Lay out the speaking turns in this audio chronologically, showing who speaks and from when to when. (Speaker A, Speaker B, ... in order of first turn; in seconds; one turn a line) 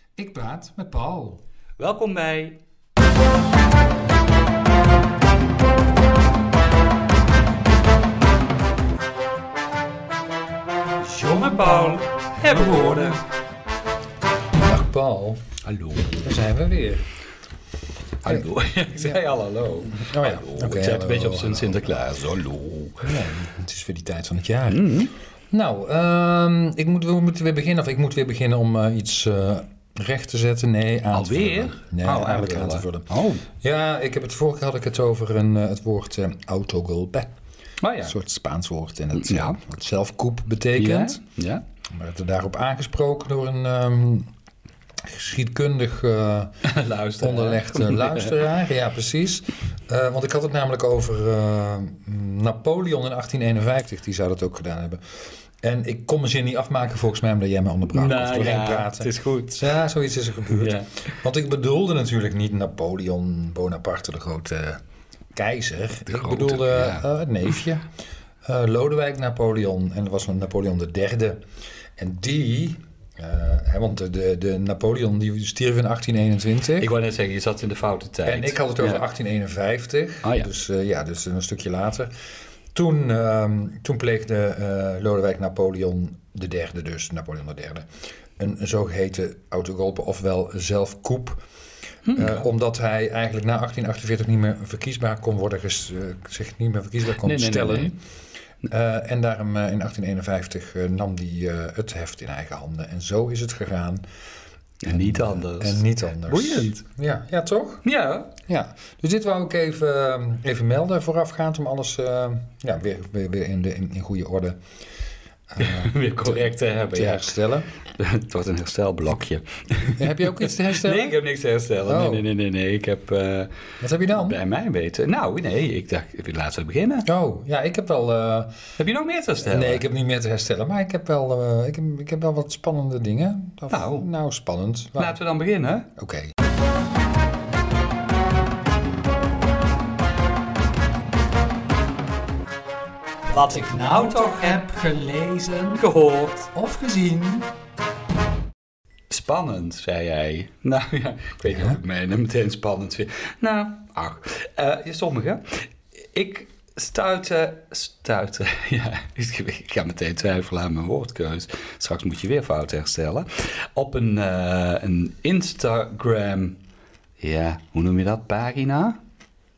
Speaker A: 0.2-1.4
Speaker B: 1.8-2.6
Speaker B: 11.0-13.2
Speaker A: 14.6-15.4
Speaker B: 15.6-16.3
Speaker A: 16.2-17.0
Speaker B: 18.2-23.1
Speaker A: 19.9-22.0
Speaker A: 23.0-25.0
Speaker B: 24.7-25.1
Speaker A: 25.5-37.3
Speaker B: 31.1-33.5
Speaker B: 37.8-38.1
Speaker A: 38.0-41.2
Speaker B: 39.1-39.6
Speaker B: 40.8-41.6
Speaker A: 41.9-44.3
Speaker A: 45.0-46.5
Speaker B: 46.6-48.4
Speaker A: 47.2-55.0
Speaker A: 55.6-64.8
Speaker B: 57.9-59.7
Speaker B: 60.5-61.1
Speaker A: 65.3-67.9
Speaker B: 66.1-67.0
Speaker A: 68.4-71.4
Speaker A: 72.0-76.9
Speaker B: 76.8-79.0
Speaker A: 78.2-82.1
Speaker B: 80.2-80.5
Speaker A: 82.7-91.4
Speaker B: 92.1-92.5
Speaker A: 92.2-98.0
Speaker B: 97.2-98.0
Speaker A: 98.6-104.0
Speaker B: 104.8-106.8
Speaker A: 104.9-107.8
Speaker B: 107.8-108.3
Speaker A: 108.4-114.6
Speaker A: 115.5-117.7
Speaker B: 115.6-117.3
Speaker B: 117.9-123.5
Speaker A: 120.0-121.2
Speaker A: 121.9-122.3
Speaker A: 123.8-124.4
Speaker B: 124.1-127.1
Speaker A: 127.1-128.6
Speaker B: 128.8-129.8
Speaker A: 129.4-135.2
Speaker B: 133.7-134.1
Speaker B: 135.0-135.9
Speaker A: 136.0-136.3
Speaker B: 143.3-144.7
Speaker A: 143.3-145.9
Speaker B: 145.7-146.5
Speaker A: 146.5-147.5
Speaker B: 149.1-166.6
Speaker A: 151.5-151.8
Speaker B: 167.2-169.0